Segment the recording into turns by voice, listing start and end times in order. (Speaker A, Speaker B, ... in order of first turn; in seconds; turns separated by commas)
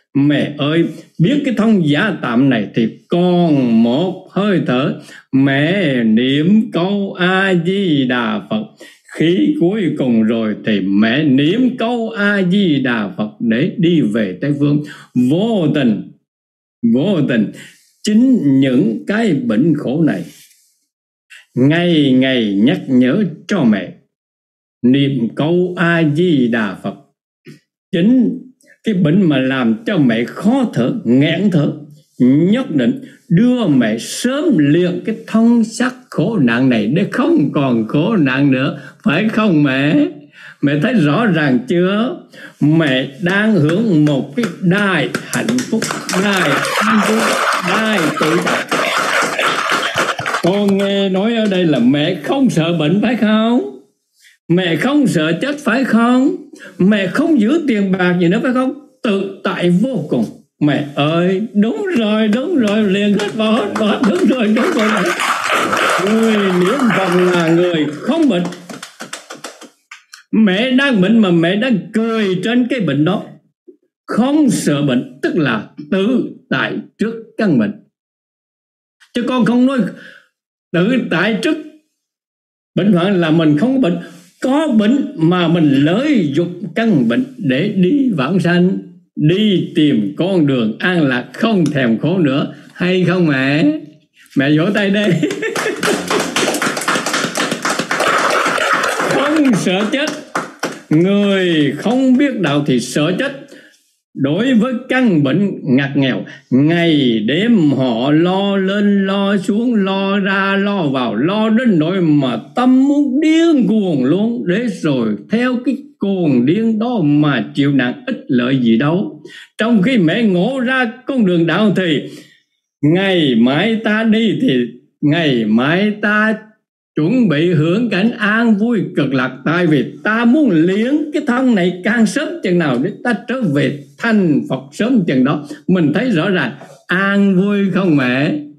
Speaker A: 0.1-16.0, Speaker A: 16.8-17.5, Speaker A: 18.0-20.3, Speaker A: 21.6-23.9, Speaker A: 24.8-27.0, Speaker A: 27.9-40.1, Speaker A: 40.6-48.7, Speaker A: 50.4-53.8, Speaker A: 54.5-65.1, Speaker A: 66.0-68.5, Speaker A: 70.3-73.2, Speaker A: 74.1-77.7, Speaker A: 79.1-79.9, Speaker A: 80.7-81.6, Speaker A: 82.8-93.8, Speaker A: 94.3-96.1, Speaker A: 99.1-100.1, Speaker A: 100.9-103.3, Speaker A: 104.2-122.1, Speaker A: 122.8-126.4, Speaker A: 127.0-138.4